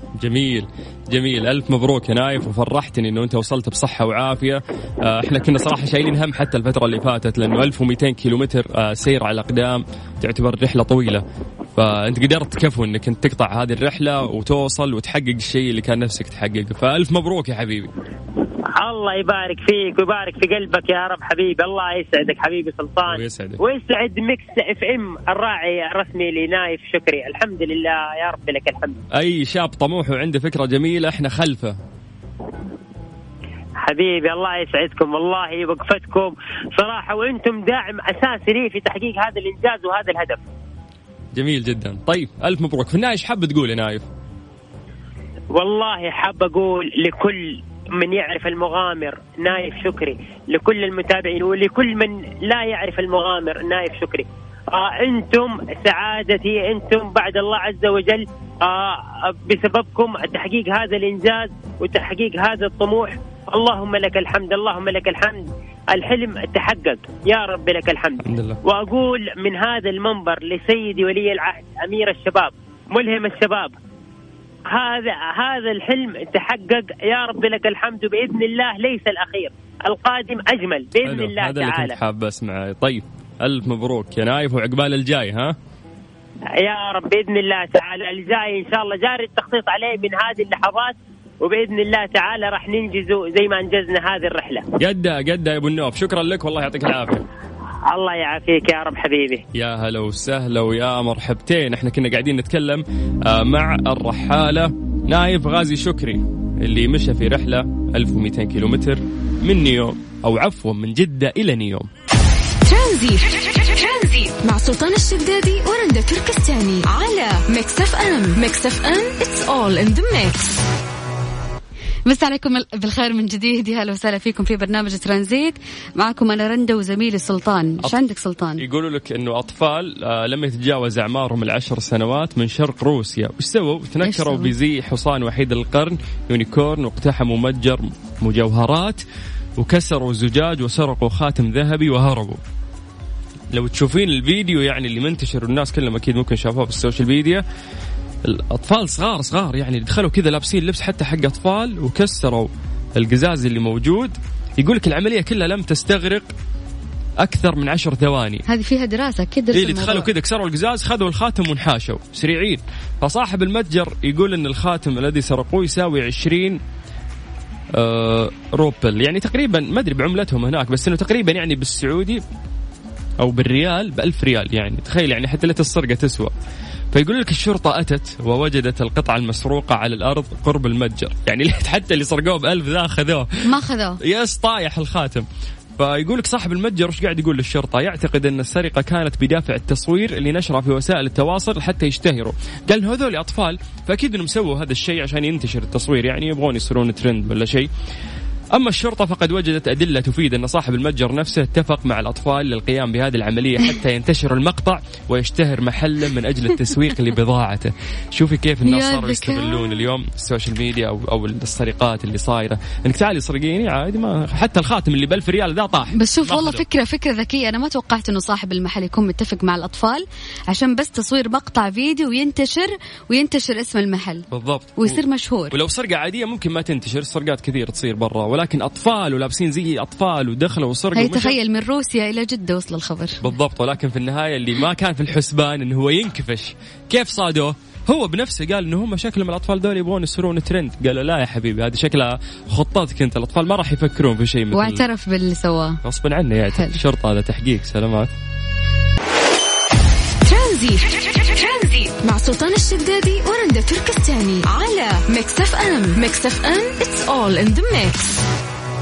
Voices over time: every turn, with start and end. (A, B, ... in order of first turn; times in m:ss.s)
0:00.2-0:17.9 A
0:18.7-0:29.0 B
0:23.1-0:23.6 A
0:29.1-0:31.8 A
0:33.8-0:40.4 B
0:41.3-0:44.1 A
0:45.5-1:13.8 B
1:08.2-1:08.6 A
1:14.7-1:21.9 B
1:21.0-1:25.6 A
1:26.6-1:34.6 B
1:34.8-1:37.3 A
1:37.9-1:39.4 B
1:39.5-1:51.9 A
1:52.6-2:00.6 C
2:02.1-2:08.6 D
2:08.6-2:19.0 A
2:14.0-2:14.5 D
2:19.6-2:22.4 A
2:23.5-2:27.4 A
2:28.2-2:36.3 A
2:37.2-2:38.4 A
2:38.5-2:40.1 D
2:39.5-2:46.6 A
2:47.7-2:52.2 A
2:53.2-2:56.3 A
2:56.9-3:03.5 A
3:03.4-3:04.0 D
3:04.0-3:05.3 A
3:05.8-3:17.7 A
3:18.5-3:36.6 A
3:28.6-3:29.8 D
3:36.0-3:45.6 D
3:44.3-3:51.4 A
3:51.0-3:53.2 D
3:53.2-4:04.8 A
4:04.5-4:05.8 D
4:05.8-4:08.1 A
4:10.2-4:18.2 C